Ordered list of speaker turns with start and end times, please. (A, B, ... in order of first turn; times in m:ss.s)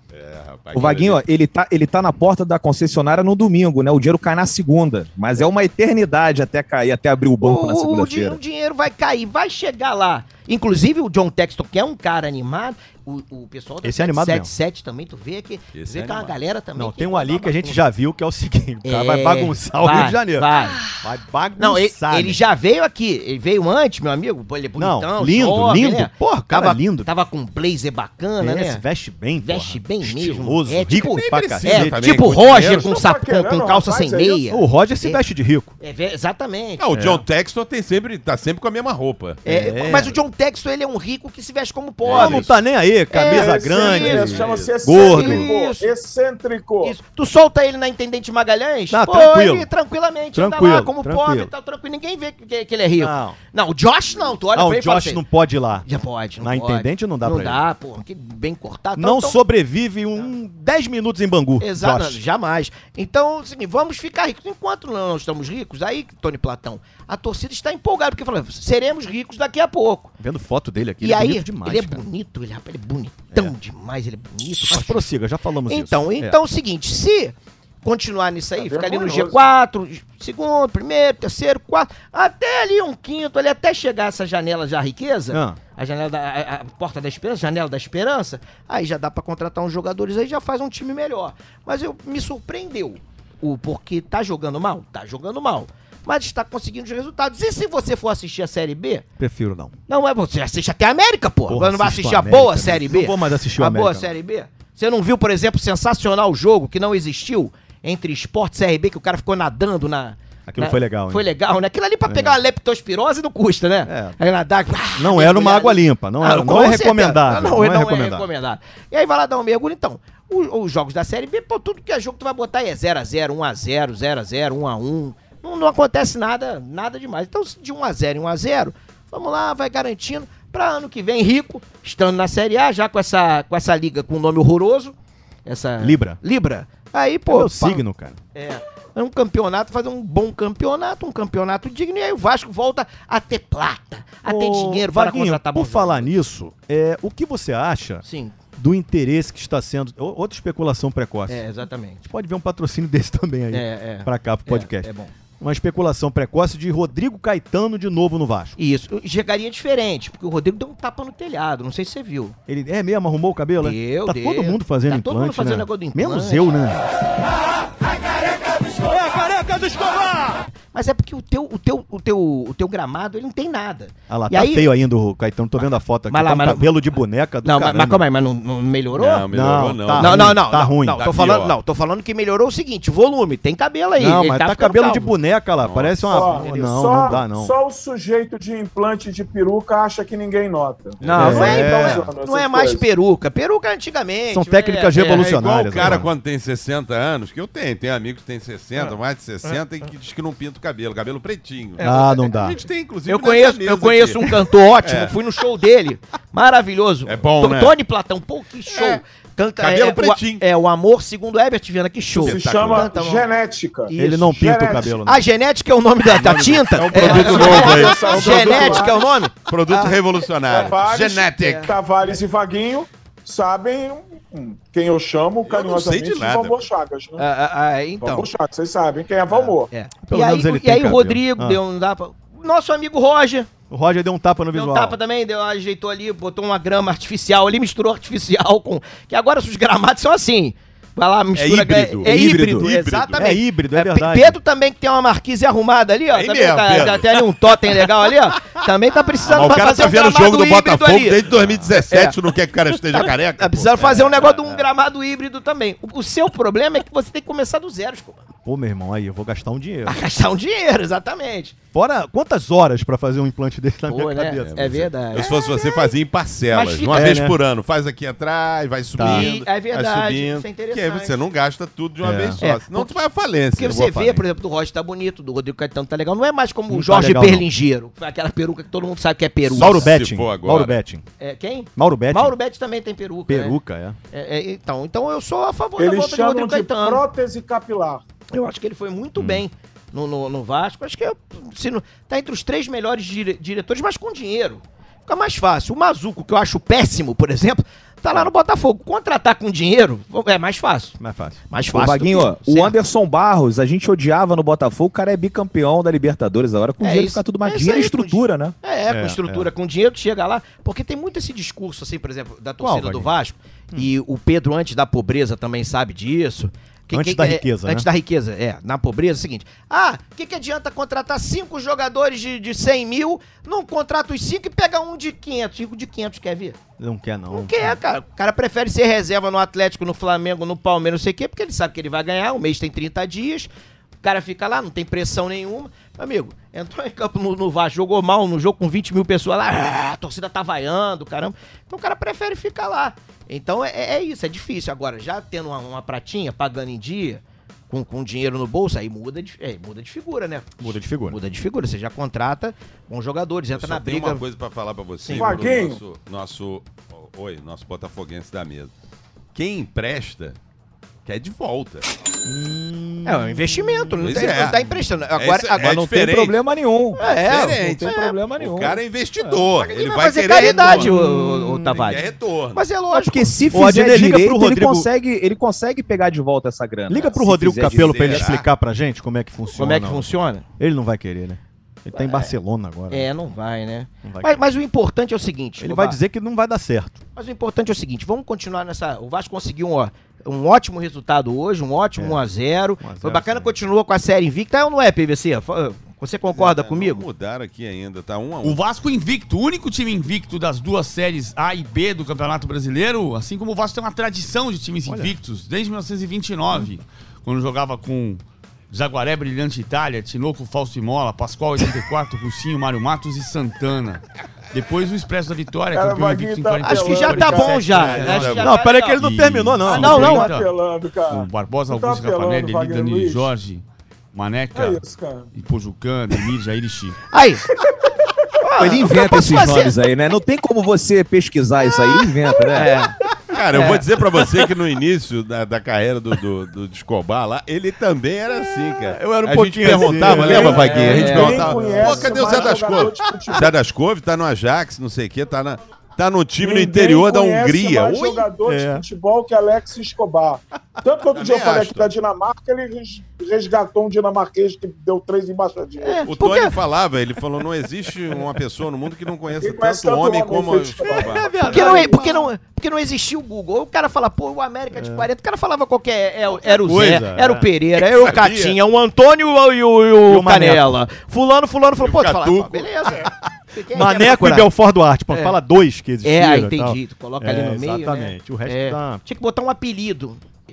0:00.1-0:01.2 A
0:00.7-0:08.4 B
0:07.4-0:17.8 C
0:13.8-0:14.5 D
0:15.7-0:16.4 A
0:16.8-0:22.4 D
0:18.8-0:20.9 C
0:21.6-0:28.8 C
0:24.8-0:27.1 D
0:28.4-0:32.2 D
0:29.4-0:35.2 C
0:31.0-0:32.9 A
0:32.5-0:34.4 E
0:34.5-0:35.7 D
0:35.8-0:36.8 C
0:36.8-0:39.4 A
0:36.9-0:37.2 D
0:39.4-0:42.5 C
0:39.4-0:40.2 D
0:42.0-0:42.5 A
0:42.1-0:45.5 D
0:43.1-0:45.9 C
0:43.3-0:47.0 E
0:44.3-0:44.7 A
0:46.8-0:55.2 C
0:48.9-0:49.7 D
0:50.3-0:51.5 D
0:53.0-0:53.4 D
0:54.5-0:55.9 D
0:55.8-0:59.4 C
0:56.4-0:57.6 D
0:59.0-1:02.2 D
1:01.6-1:10.1 C
1:10.2-1:12.0 D
1:11.0-1:15.1 C
1:14.6-1:16.4 D
1:15.7-1:39.0 C
1:18.6-1:19.4 E
1:25.3-1:25.6 D
1:39.2-1:39.7 D
1:39.9-2:17.8 C
1:41.5-1:44.1 D
1:50.5-1:51.2 D
1:52.0-1:52.4 D
1:53.8-1:54.2 D
1:55.0-1:58.3 D
2:15.8-2:16.2 D
2:17.3-2:18.2 D
2:18.3-2:26.1 C
2:24.2-2:28.0 D
2:28.0-2:28.4 C
2:28.6-2:31.4 D
2:31.3-2:32.0 C
2:32.0-2:38.6 D
2:33.5-2:35.1 C
2:38.6-2:42.4 C
2:42.5-2:46.8 D
2:43.6-2:46.8 C
2:48.8-2:50.4 D
2:50.7-2:54.7 C
2:54.1-2:58.0 D
2:55.6-2:56.7 C
2:57.4-2:59.2 C
2:58.9-3:01.6 A
2:59.0-3:01.0 D
2:59.9-3:05.1 C
3:04.0-3:07.5 D
3:05.6-3:06.1 A
3:06.1-3:12.8 E
3:06.3-3:07.2 C
3:11.0-3:11.4 A
3:11.0-3:16.0 C
3:11.1-3:12.1 D
3:14.3-3:16.1 D
3:15.1-3:25.1 A
3:21.8-3:22.2 C
3:21.8-3:22.6 D
3:23.1-3:33.3 C
3:27.0-3:27.8 A
3:28.7-3:29.0 A
3:29.6-3:30.4 A
3:32.1-3:33.0 A
3:32.2-3:35.0 E
3:33.9-3:34.4 C
3:33.9-3:35.2 D
3:35.0-3:40.0 C
3:36.0-3:38.8 A
3:36.7-3:38.8 D
3:37.0-3:39.0 E
3:39.4-3:41.7 A
3:40.5-3:47.3 E
3:41.4-3:42.2 C
3:45.4-3:46.6 A
3:47.2-3:48.2 C
3:48.0-3:49.7 E
3:49.3-3:53.5 C
3:50.0-3:51.6 D
3:53.7-3:55.0 D
3:54.5-4:12.2 C
4:01.3-4:03.2 A
4:02.0-4:02.7 B
4:03.2-4:04.4 D
4:06.1-4:07.3 A
4:09.2-4:14.6 A
4:12.9-4:18.2 C
4:18.4-4:20.0 D
4:19.8-4:21.5 C
4:21.7-4:24.9 D
4:23.9-4:25.9 C
4:24.4-4:34.0 A
4:26.5-4:27.2 C
4:26.9-4:27.4 D
4:29.0-4:29.2 D
4:29.0-4:31.2 C
4:32.0-4:32.4 D
4:32.4-4:33.0 C
4:33.5-4:39.9 C
4:33.6-4:34.2 D
4:36.7-4:37.5 D
4:39.5-4:40.8 A
4:39.5-4:41.0 D
4:41.2-4:43.6 C
4:41.8-4:42.4 D
4:43.3-4:44.0 D
4:44.1-4:47.0 C
4:45.8-4:48.0 E
4:48.3-5:01.0 C
4:49.2-4:49.4 D
5:01.0-5:01.4 D
5:01.5-5:02.7 C
5:01.7-5:08.6 B
5:06.8-5:26.6 C
5:08.9-5:09.5 D
5:12.6-5:13.1 D
5:16.9-5:17.9 D
5:26.8-5:27.8 D
5:27.3-5:33.5 C
5:34.0-5:54.2 C
5:50.6-5:51.2 D
5:53.5-5:58.7 A
5:55.0-5:55.4 C
5:55.1-5:55.8 E
5:59.3-6:00.4 A
6:01.0-6:01.9 A
6:02.2-6:04.5 D
6:03.0-6:05.8 C
6:04.0-6:06.4 A
6:05.6-6:09.4 B
6:06.9-6:08.2 C
6:07.0-6:11.0 A
6:09.6-6:13.4 C
6:10.6-6:11.7 D
6:11.6-6:12.6 A
6:12.9-6:18.4 B
6:13.5-6:14.9 D
6:16.9-6:23.1 D
6:17.6-6:18.4 A
6:19.5-6:20.4 C
6:22.0-6:22.3 C
6:22.9-6:26.0 C
6:24.0-6:24.4 D
6:25.6-6:27.0 D
6:27.2-6:37.0 C
6:32.0-6:32.2 D
6:32.8-6:33.5 D
6:36.3-6:38.6 A
6:38.4-6:54.0 F
6:44.9-6:45.2 D
6:54.5-7:00.5 F
6:55.7-6:58.0 E
6:56.6-6:59.0 C
6:57.9-7:00.3 D
6:57.9-6:58.4 A
6:59.7-7:00.3 C
6:59.9-7:03.3 E
7:01.1-7:07.0 F
7:04.5-7:05.3 E
7:07.1-7:07.4 C
7:08.4-7:09.8 C
7:08.6-7:12.8 B
7:12.5-7:12.9 C
7:13.3-7:28.3 A
7:13.5-7:13.8 C
7:18.9-7:22.0 D
7:20.1-7:23.5 E
7:20.8-7:22.4 C
7:26.4-7:36.0 E
7:28.5-7:28.8 D
7:31.1-7:31.9 A
7:35.8-7:36.5 C
7:36.0-7:41.8 A
7:39.4-7:42.2 E
7:40.8-7:42.3 D
7:41.4-7:54.5 C
7:44.7-7:45.1 D
7:46.4-7:47.5 D
7:48.2-7:48.5 D
7:50.0-7:50.7 D
7:51.8-7:53.0 A
7:53.7-7:59.0 D
7:55.1-7:55.4 C
7:56.0-8:00.2 C